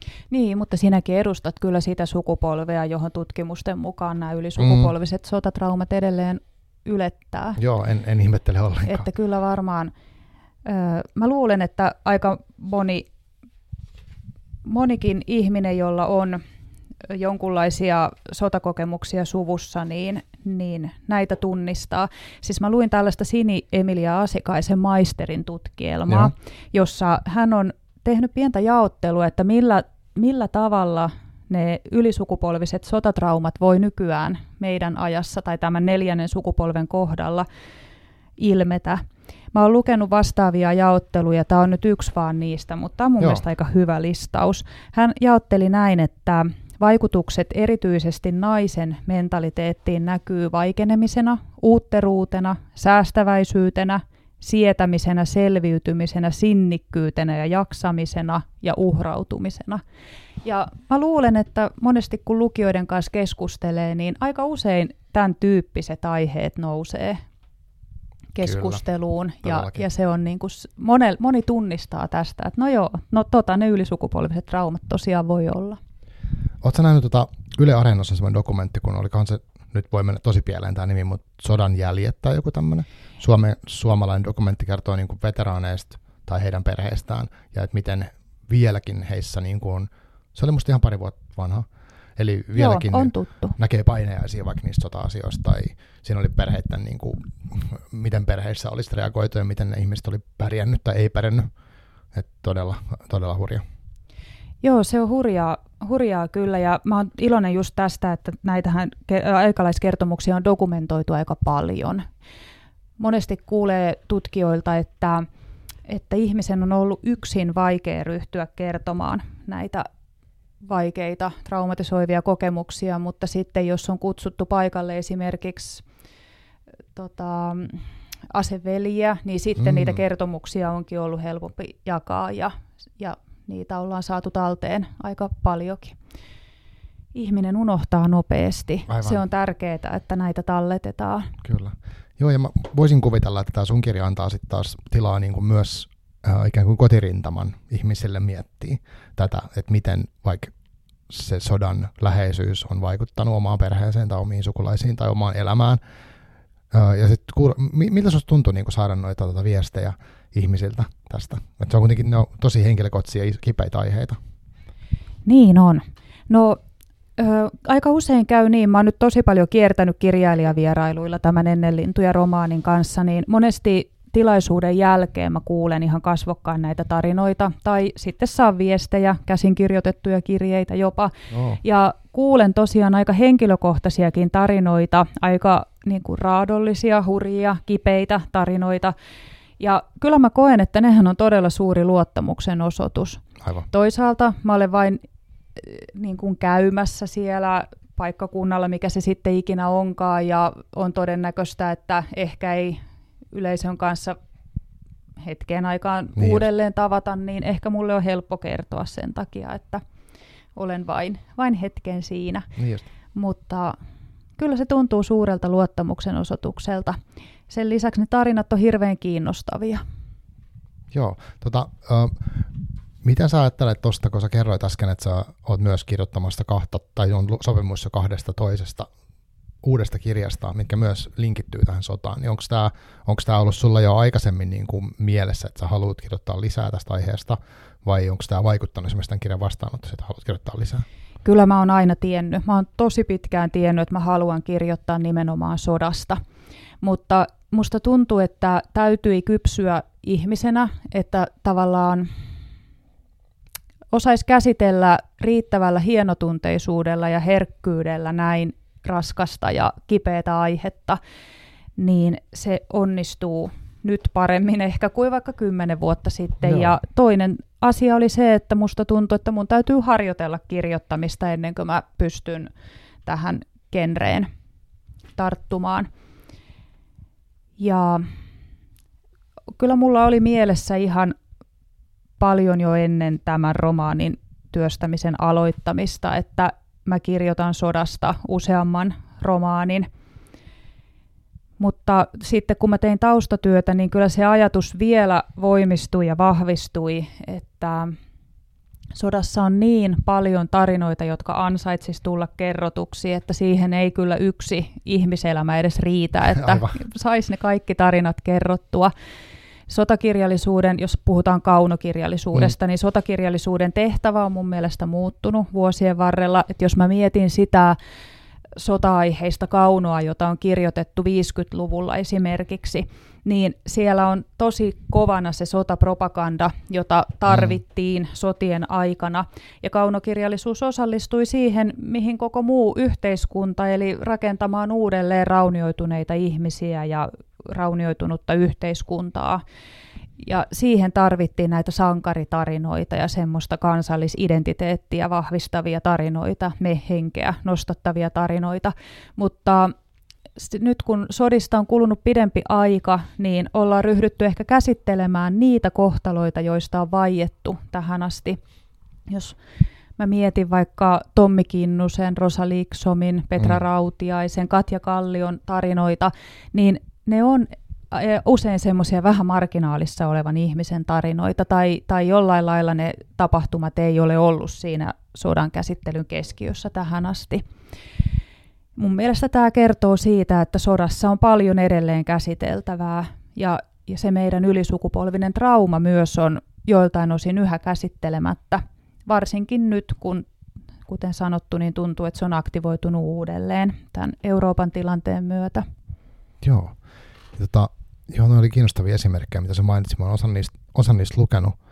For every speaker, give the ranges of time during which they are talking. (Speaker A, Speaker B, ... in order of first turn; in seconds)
Speaker A: 0.3-7.6, 8.9-9.9, 10.7-13.1, 14.7-16.4, 17.1-37.5, 38.4-39.0, 39.5-59.8, 60.4-67.2, 68.3-75.8, 92.6-93.6, 104.6-112.0, 113.0-115.3, 115.9-119.9, 120.6-125.8, 127.0-136.0, 137.1-141.3, 165.3-166.6, 167.2-188.9, 189.6-195.0, 195.6-202.8, 203.3-204.2, 205.2-209.8, 210.6-212.5, 213.1-213.8, 214.4-217.0, 217.5-219.8, 241.2-246.2, 246.8-252.1, 253.9-261.0, 261.8-272.5, 273.1-274.3, 275.2-275.9, 277.6-278.1, 279.6-281.1, 282.2-289.9, 291.6-297.9, 298.9-308.9, 309.7-317.8, 318.6-339.4, 340.2-349.7, 350.4-358.4, 359.1-359.4, 360.0-377.4, 378.8-390.2, 390.9-395.6
Speaker B: 4.6-4.9, 7.6-9.1, 68.4-68.8, 69.4-69.8, 76.6-91.7, 92.2-101.5, 102.1-103.6, 129.6-130.0, 138.9-139.2, 141.4-150.5, 151.1-155.8, 156.7-164.2, 181.3-181.6, 206.2-206.4, 212.6-212.9, 220.9-222.5, 223.0-228.9, 229.6-240.8, 266.4-266.8, 306.4-306.7, 396.4-396.8, 397.4-401.6